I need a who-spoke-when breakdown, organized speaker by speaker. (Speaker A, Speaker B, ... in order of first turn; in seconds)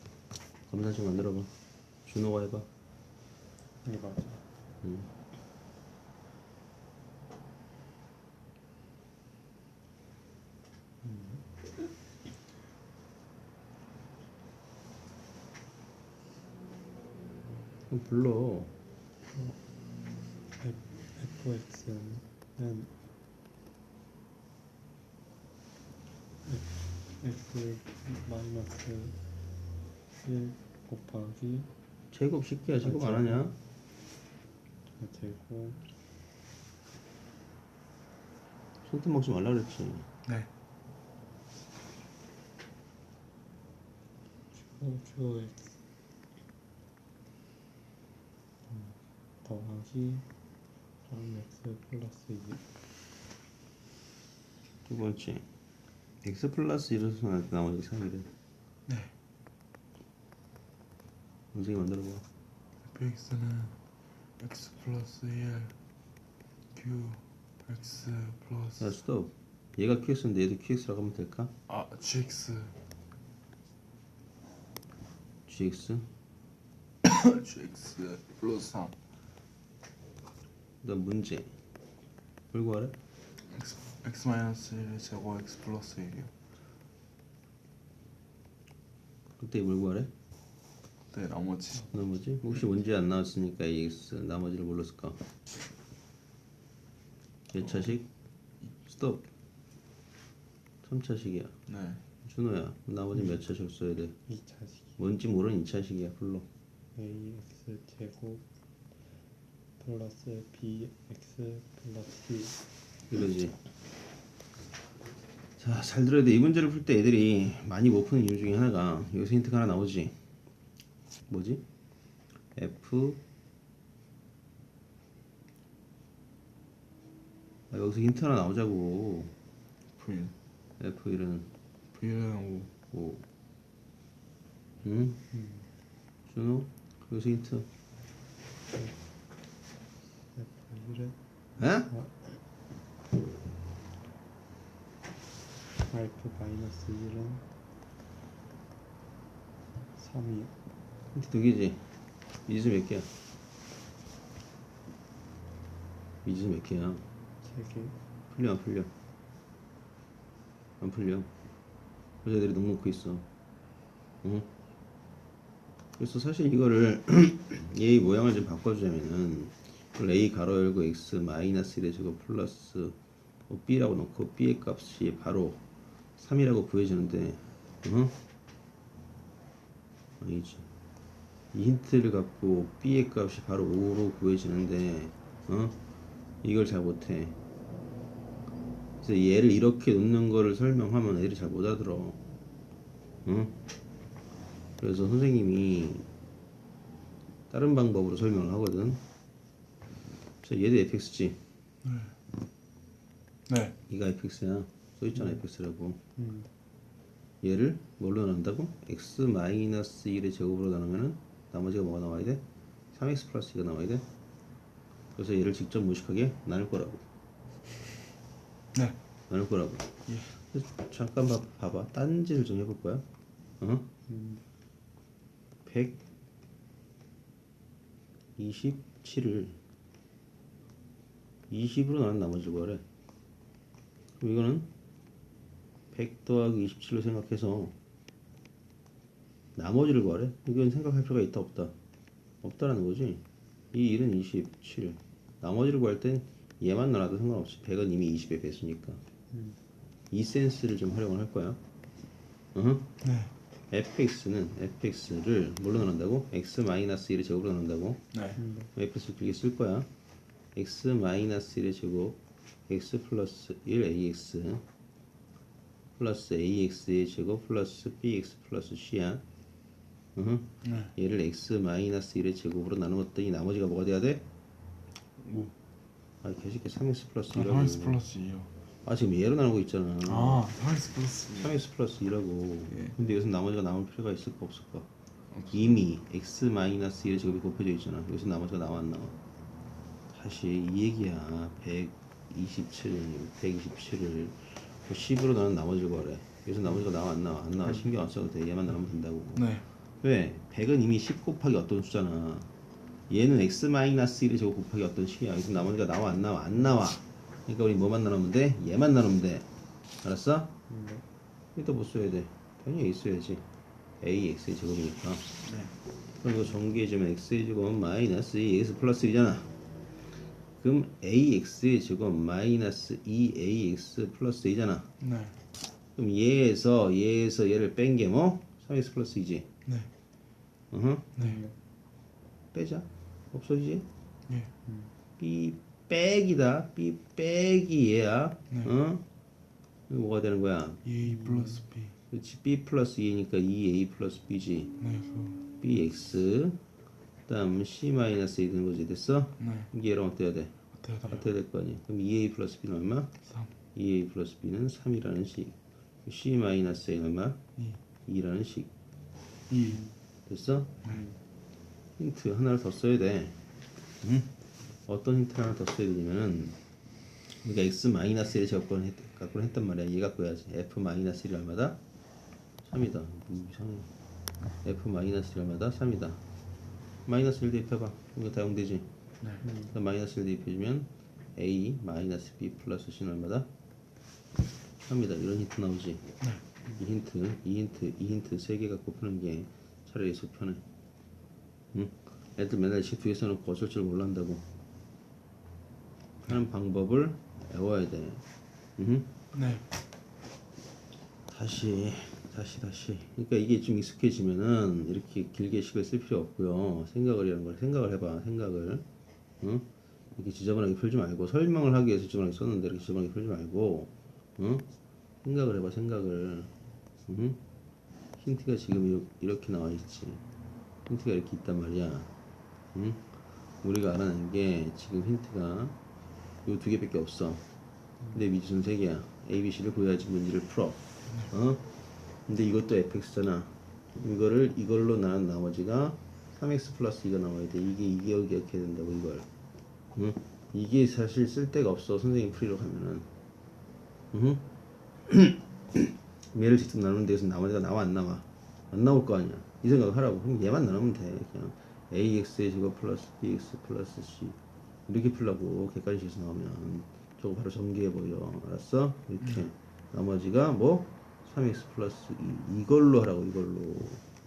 Speaker A: 0.7-1.5, 2.1-2.7, 4.8-5.1, 17.9-18.7, 32.1-33.5, 38.9-40.1, 54.9-55.5, 56.2-58.3, 61.5-62.2, 68.8-71.5, 75.5-76.1, 80.8-81.5, 82.5-83.0, 89.4-90.1, 91.9-95.2, 97.5-98.1, 98.9-99.2, 100.8-101.5, 102.2-104.2, 105.0-106.5, 113.1-113.6, 115.6-120.2, 121.3-121.6, 122.5-123.2, 127.7-129.3, 130.8-131.5, 132.9-133.2, 134.8-135.2, 136.3-137.7, 141.6-141.9, 151.1-153.1, 156.2-157.1, 158.3-158.9, 160.8-161.3, 162.2-163.3, 164.2-164.5, 166.0-173.0, 173.5-175.6, 176.2-178.2, 180.2-180.7, 181.5-185.8, 186.4-187.4, 189.0-192.2, 193.2-193.6, 194.8-196.1, 197.5-199.0, 200.4-201.4, 203.9-206.0, 207.4-214.1, 215.2-217.0, 219.3-223.1, 223.6-223.9, 225.7-226.0, 228.4-229.6, 231.5-232.8, 234.2-234.7, 235.9-237.8, 239.6-241.8, 242.4-249.0, 250.1-251.6, 252.6-252.9, 253.7-258.1, 258.7-259.9, 260.6-264.6, 266.0-269.2, 270.2-274.2, 276.2-278.0, 278.8-280.5, 281.3-284.9, 285.5-289.2, 290.1-302.5, 303.1-309.5, 310.0-310.5, 311.6-313.5, 314.0-315.3, 316.2-319.5, 320.6-324.9, 326.0-329.5, 330.7-331.1, 332.5-333.9, 335.2-339.1, 339.9-340.8, 342.1-344.7, 345.6-346.6, 347.3-353.1, 353.8-357.4, 358.1-358.7, 360.3-360.8, 362.0-363.4, 364.0-364.3, 364.9-366.6, 367.3-371.8, 372.6-373.9, 374.6-376.2, 377.1-378.9, 379.7-383.5, 384.8-386.1, 386.8-390.6, 391.7-394.4, 396.3-398.2, 398.8-399.1, 401.3-408.9, 409.4-414.7, 415.2-416.5, 417.1-417.4, 418.2-420.2, 420.9-422.1, 422.7-423.1, 423.6-425.8, 426.4-427.4, 428.1-431.6, 432.3-439.3, 439.9-443.1, 444.1-444.5, 445.1-464.0
Speaker B: 3.8-4.5, 11.0-11.4, 20.6-22.9, 26.4-29.2, 30.2-31.7, 32.8-33.4, 35.0-35.8, 44.5-45.7, 48.7-50.3, 51.0-52.6, 104.3-105.0, 107.0-108.4, 109.8-112.6, 135.3-135.7, 140.3-141.2, 141.9-142.4, 145.8-147.5, 150.0-150.5, 157.4-158.0, 206.2-206.5, 224.1-224.4, 249.3-249.6, 258.4-258.7, 310.7-311.1, 331.2-331.6, 334.6-334.9, 341.1-341.6, 379.4-379.7
Speaker C: 58.9-59.1, 62.9-63.8, 64.4-65.7, 66.7-68.9, 71.7-72.8, 77.0-79.0, 83.4-86.3, 91.1-91.9, 101.7-102.0, 130.0-130.3, 131.9-132.7, 201.8-202.2, 203.5-203.8, 220.1-220.3, 253.0-253.3, 258.1-258.4, 270.6-270.9, 275.2-275.5, 277.3-278.5, 280.0-281.5, 282.7-283.0, 285.3-285.6, 299.4-299.7, 315.4-315.8, 325.0-325.4, 329.6-329.9, 340.8-342.0, 344.8-345.4, 349.4-349.7, 350.7-351.2, 353.2-353.5, 359.5-359.9, 399.3-399.7